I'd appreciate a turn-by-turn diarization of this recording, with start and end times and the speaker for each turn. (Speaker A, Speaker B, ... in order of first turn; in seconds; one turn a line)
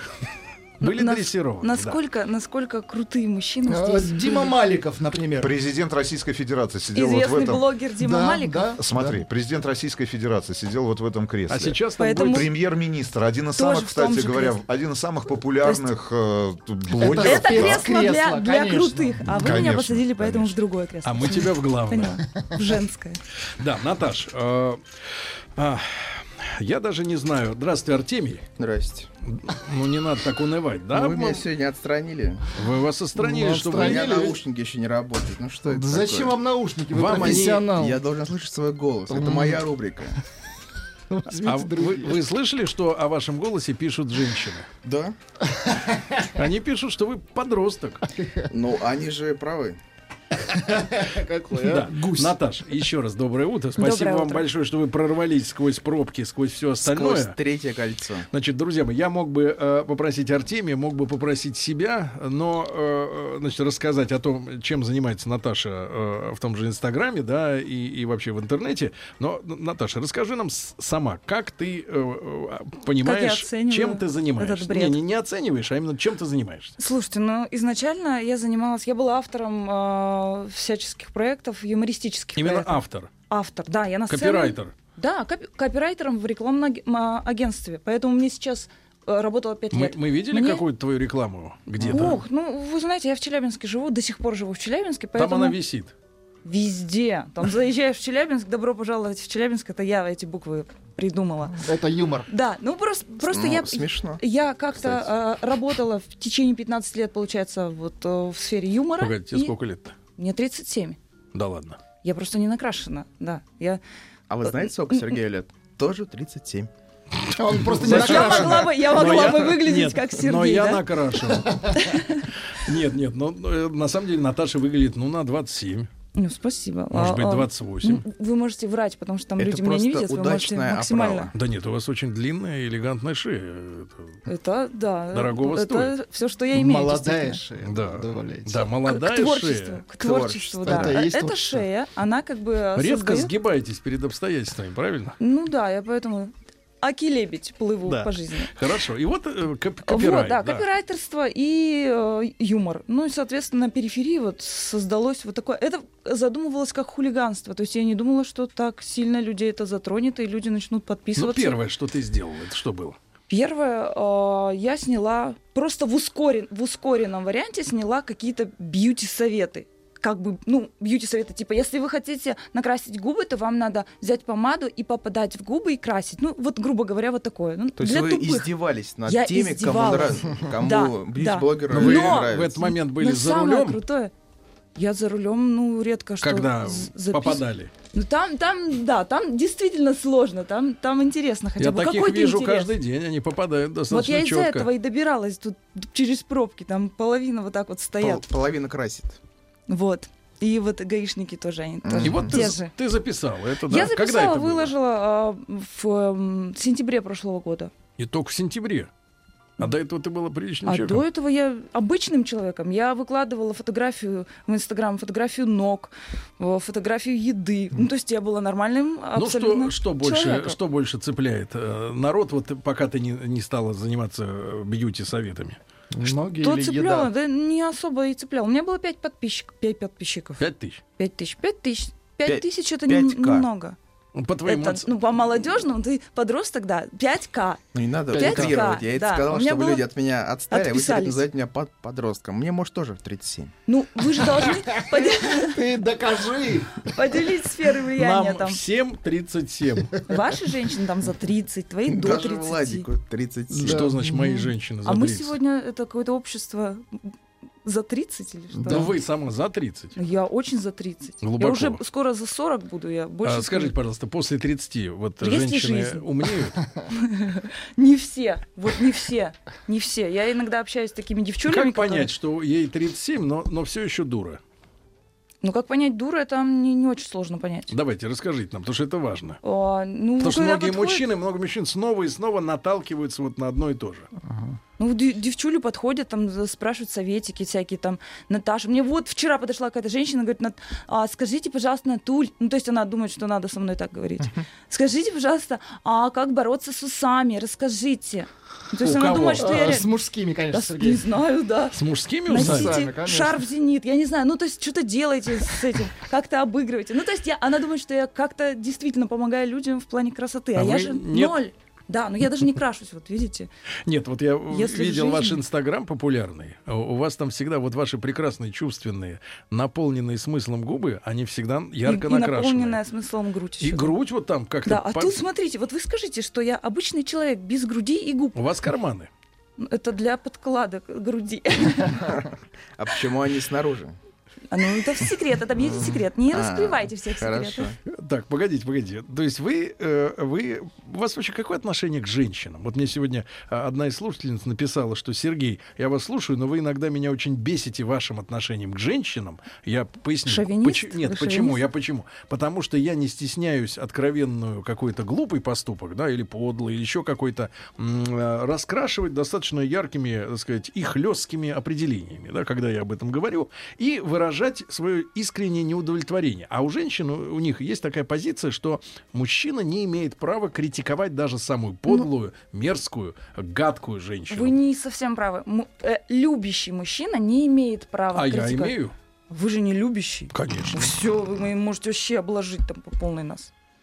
Speaker A: 0.8-2.0
Speaker B: 0.8-4.5
Speaker C: 3.7-5.5
Speaker D: 5.4-7.7
Speaker B: 6.9-8.8
Speaker C: 8.0-9.2
Speaker D: 8.8-17.9
Speaker A: 11.5-12.5
Speaker B: 12.0-12.5
Speaker B: 13.6-14.6
Speaker B: 15.6-15.9
Speaker C: 16.9-19.6
Speaker B: 17.2-23.2
Speaker D: 19.3-20.6
Speaker A: 21.1-22.2
Speaker A: 23.6-24.8
Speaker A: 25.6-28.4
Speaker E: 28.6-29.1
Speaker A: 29.2-31.4
Speaker E: 30.9-32.5
Speaker A: 32.5-34.3
Speaker C: 33.2-34.4
Speaker E: 33.7-36.4
Speaker C: 35.6-38.0
Speaker A: 36.9-37.7
Speaker E: 37.0-40.2
Speaker C: 39.1-39.6
Speaker C: 41.1-42.2
Speaker A: 41.4-44.7
Speaker E: 44.8-45.2
Speaker C: 45.5-46.3
Speaker A: 46.4-48.1
Speaker E: 48.5-49.8
Speaker C: 50.4-52.4
Speaker A: 51.5-57.4
Speaker B: 53.8-54.5
Speaker E: 56.8-58.3
Speaker A: 58.3-76.8
Speaker B: 73.0-75.0
Speaker B: 76.8-90.6
Speaker A: 82.4-83.1
Speaker A: 84.1-84.7
Speaker A: 89.7-92.2
Speaker B: 91.8-95.6
Speaker C: 91.8-92.2
Speaker A: 95.2-95.9
Speaker B: 96.5-101.6
Speaker C: 101.6-102.3
Speaker B: 102.3-109.5
Speaker E: 103.2-104.2
Speaker E: 104.8-105.1
Speaker A: 109.0-110.0
Speaker B: 110.2-111.0
Speaker A: 111.3-111.8
Speaker B: 112.0-113.8
Speaker E: 114.3-116.7
Speaker C: 117.4-118.8
Speaker A: 117.6-121.7
Speaker B: 117.8-120.8
Speaker B: 121.7-122.3
Speaker A: 122.5-125.9
Speaker B: 126.2-131.3
Speaker A: 126.9-128.1
Speaker E: 129.4-131.4
Speaker A: 131.3-134.1
Speaker B: 134.3-137.4
Speaker A: 135.1-136.0
Speaker C: 136.5-138.7
Speaker A: 137.6-139.8
Speaker B: 138.8-143.3
Speaker E: 140.0-141.0
Speaker C: 140.6-141.7
Speaker A: 142.8-145.2
Speaker B: 145.2-148.5
Speaker A: 147.8-150.7
Speaker B: 149.9-161.6
Speaker A: 161.2-163.0
Speaker B: 163.3-178.5
Speaker E: 177.8-182.7
Speaker B: 179.1-184.1
Speaker A: 181.7-183.8
Speaker B: 184.8-187.4
Speaker A: 186.2-187.7
Speaker B: 187.9-192.7
Speaker A: 191.6-194.7
Speaker B: 193.9-198.2
Speaker E: 198.0-199.2
Speaker B: 199.7-202.7
Speaker E: 201.8-202.4
Speaker A: 202.0-204.7
Speaker B: 203.7-207.7
Speaker A: 208.0-208.9
Speaker A: 209.6-211.0
Speaker B: 210.7-220.6
Speaker A: 219.2-225.6
Speaker C: 225.9-227.1
Speaker B: 226.4-230.4
Speaker A: 230.4-230.8
Speaker B: 231.0-233.8
Speaker E: 232.2-233.5
Speaker A: 234.2-234.9
Speaker B: 234.4-237.6
Speaker E: 237.7-243.5
Speaker B: 238.1-239.8
Speaker C: 238.2-238.4
Speaker B: 240.5-241.3
Speaker B: 243.7-245.6
Speaker C: 244.5-246.9
Speaker B: 246.9-248.6
Speaker A: 248.0-250.0
Speaker B: 250.1-252.9
Speaker E: 251.9-253.9
Speaker A: 253.5-255.4
Speaker C: 253.6-254.5
Speaker B: 254.8-257.1
Speaker B: 257.6-258.9
Speaker C: 258.6-258.9
Speaker A: 258.7-259.9
Speaker B: 259.9-263.7
Speaker A: 261.2-261.8
Speaker A: 263.2-266.6
Speaker B: 265.2-266.1
Speaker B: 266.9-272.1
Speaker A: 271.5-274.4
Speaker B: 275.4-277.7
Speaker A: 277.7-279.4
Speaker B: 279.4-281.1
Speaker A: 280.2-284.1
Speaker C: 284.3-284.6
Speaker B: 284.8-299.9
Speaker A: 298.8-299.8
Speaker C: 299.4-301.1
Speaker B: 300.5-313.5
Speaker A: 301.7-302.9
Speaker C: 302.3-303.4
Speaker A: 310.6-311.4
Speaker A: 313.9-322.8
Speaker B: 314.5-315.4
Speaker B: 321.9-323.9
Speaker A: 323.6-325.2
Speaker B: 324.6-328.4
Speaker A: 328.4-329.1
Speaker B: 329.6-332.1
Speaker E: 332.0-334.0
Speaker B: 334.5-337.7
Speaker E: 336.3-337.8
Speaker A: 337.9-374.6
Speaker B: 350.3-351.6
Speaker B: 374.3-378.8
Speaker A: 378.1-378.9
Speaker B: 379.3-383.5
Speaker A: 380.3-380.9